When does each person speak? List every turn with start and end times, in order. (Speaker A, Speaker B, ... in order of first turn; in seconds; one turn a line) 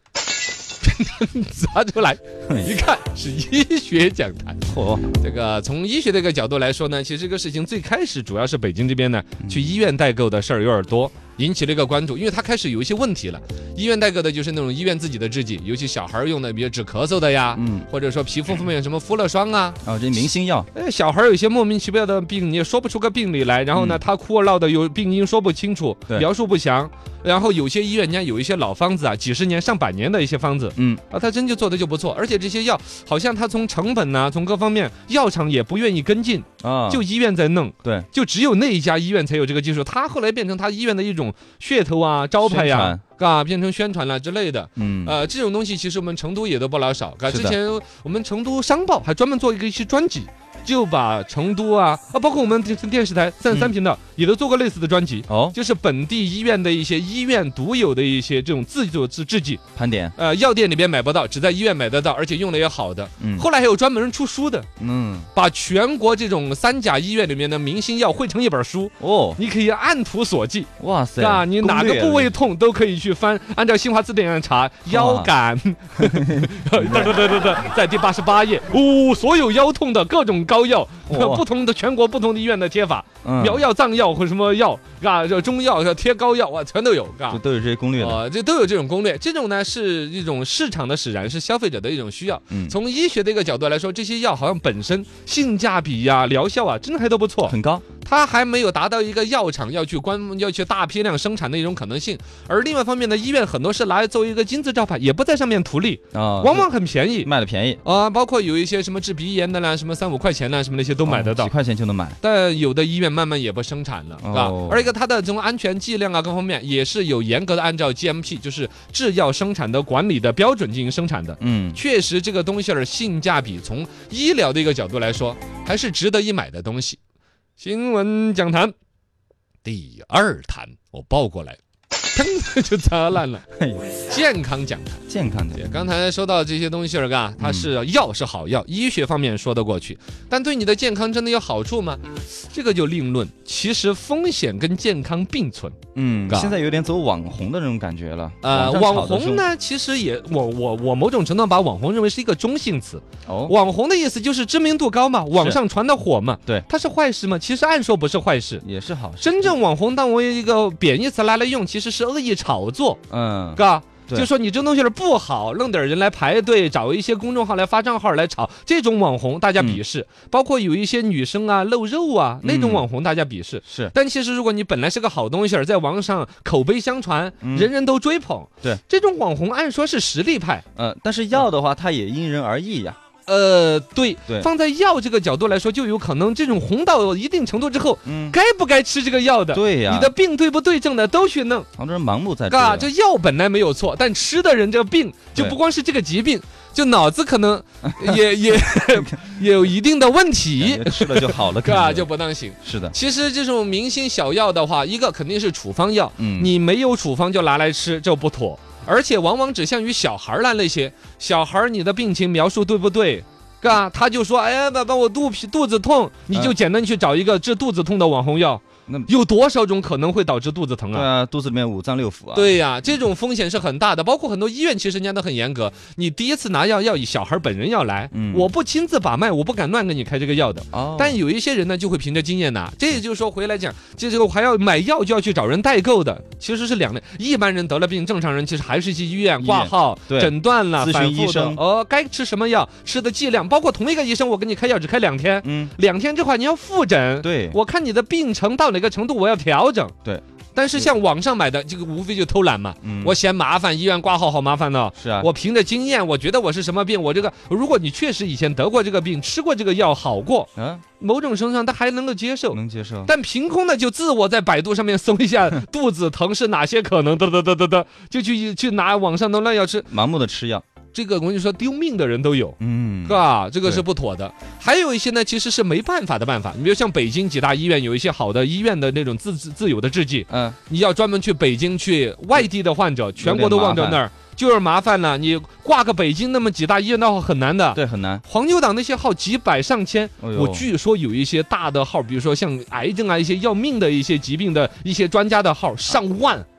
Speaker A: 0.8-4.7
Speaker B: 4.7-5.1
Speaker A: 5.2-19.8
Speaker B: 17.5-17.9
Speaker B: 19.8-20.7
Speaker A: 20.7-59.6
Speaker B: 23.7-24.0
Speaker B: 30.8-31.0
Speaker B: 36.6-37.0
Speaker B: 42.4-43.0
Speaker B: 44.8-45.1
Speaker B: 47.3-47.6
Speaker B: 55.3-55.5
Speaker B: 59.8-60.1
Speaker A: 60.1-64.7
Speaker B: 63.2-63.5
Speaker B: 64.8-65.3
Speaker A: 65.3-87.4
Speaker B: 69.0-69.4
Speaker B: 70.8-72.3
Speaker B: 74.9-75.3
Speaker B: 76.0-77.2
Speaker B: 81.1-81.4
Speaker B: 83.2-83.6
Speaker B: 87.3-88.2
Speaker A: 88.0-107.3
Speaker B: 92.5-92.8
Speaker B: 97.4-97.8
Speaker B: 106.1-106.7
Speaker B: 107.2-107.8
Speaker A: 107.8-111.5
Speaker B: 111.0-112.2
Speaker A: 112.2-127.0
Speaker B: 114.2-114.8
Speaker B: 121.4-121.8
Speaker A: 127.6-128.7
Speaker A: 129.6-131.6
Speaker A: 132.1-133.4
Speaker B: 133.5-133.9
Speaker A: 134.0-135.0
Speaker B: 135.1-135.7
Speaker A: 135.5-145.8
Speaker B: 137.4-137.7
Speaker B: 145.9-149.4
Speaker A: 146.3-146.5
Speaker A: 148.4-158.6
Speaker B: 153.2-153.6
Speaker B: 158.6-159.5
Speaker A: 159.2-163.0
Speaker B: 163.1-164.3
Speaker A: 163.6-180.6
Speaker B: 172.4-172.9
Speaker B: 173.7-173.9
Speaker B: 177.4-177.7
Speaker B: 180.8-183.0
Speaker A: 183.2-191.7
Speaker B: 188.0-188.3
Speaker B: 189.5-190.1
Speaker B: 191.8-192.9
Speaker A: 192.5-221.1
Speaker B: 197.8-198.2
Speaker B: 198.9-199.3
Speaker B: 200.6-202.1
Speaker B: 202.6-202.9
Speaker B: 206.2-206.5
Speaker B: 220.9-222.6
Speaker A: 222.3-249.9
Speaker B: 228.1-228.5
Speaker B: 230.7-231.2
Speaker B: 239.4-241.6
Speaker B: 245.4-245.7
Speaker B: 247.2-247.6
Speaker A: 250.5-269.9
Speaker B: 252.8-253.2
Speaker B: 255.0-255.3
Speaker B: 260.6-260.8
Speaker B: 262.5-263.1
Speaker B: 269.9-270.6
Speaker A: 270.9-296.4
Speaker B: 272.6-273.8
Speaker B: 280.3-280.6
Speaker B: 283.2-284.0
Speaker B: 287.7-288.2
Speaker B: 290.2-290.7